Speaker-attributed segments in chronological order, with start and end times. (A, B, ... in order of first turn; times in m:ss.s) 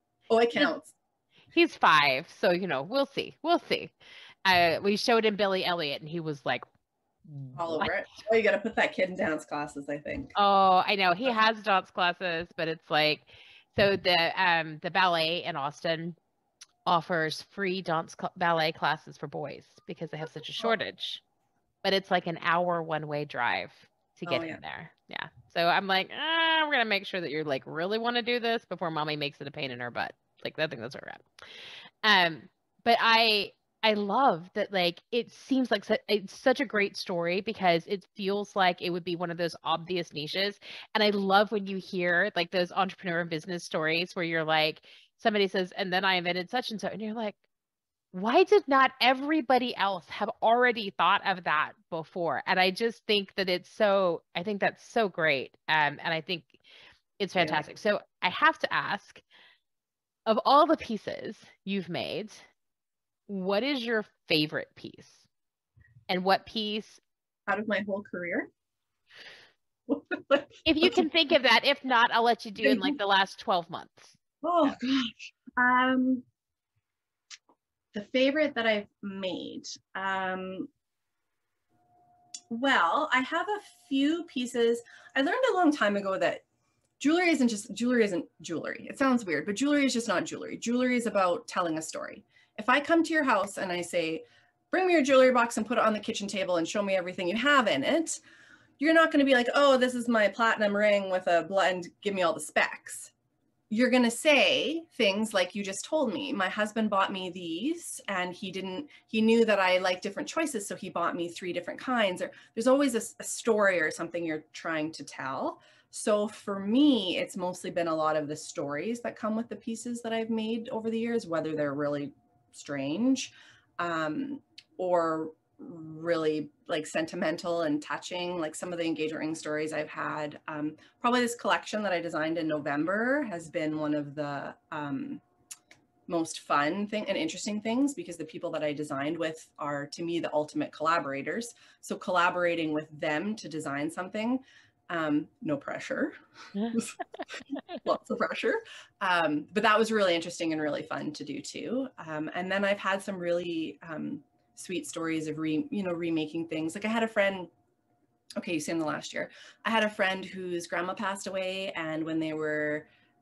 0:00.3-0:00.9 A
0:01.5-0:03.9 B
0:04.4-0:06.6 B
0:07.3-0:08.0 B
0:07.6-0:10.3 A
0:10.4-0:16.2 B
0:16.9-0:21.2 B
0:21.8-0:31.2 B
0:24.3-0:24.6 A
0:32.0-0:47.4 B
0:48.1-0:56.6 B
0:57.2-0:59.2 B
1:00.3-1:02.4 B
1:03.3-1:05.3 B
1:06.1-1:07.0 B
1:07.5-1:08.5 A
1:09.9-1:11.1 A
1:10.6-1:14.2 B
1:12.6-1:13.0 A
1:14.4-1:16.2 A
1:17.9-1:20.7 A
1:22.5-1:26.4 A
1:27.0-1:38.2 A
1:38.8-1:43.1 A
1:43.7-2:15.2 A
2:16.1-2:26.2 A
2:26.7-2:37.5 A
2:38.4-2:42.9 A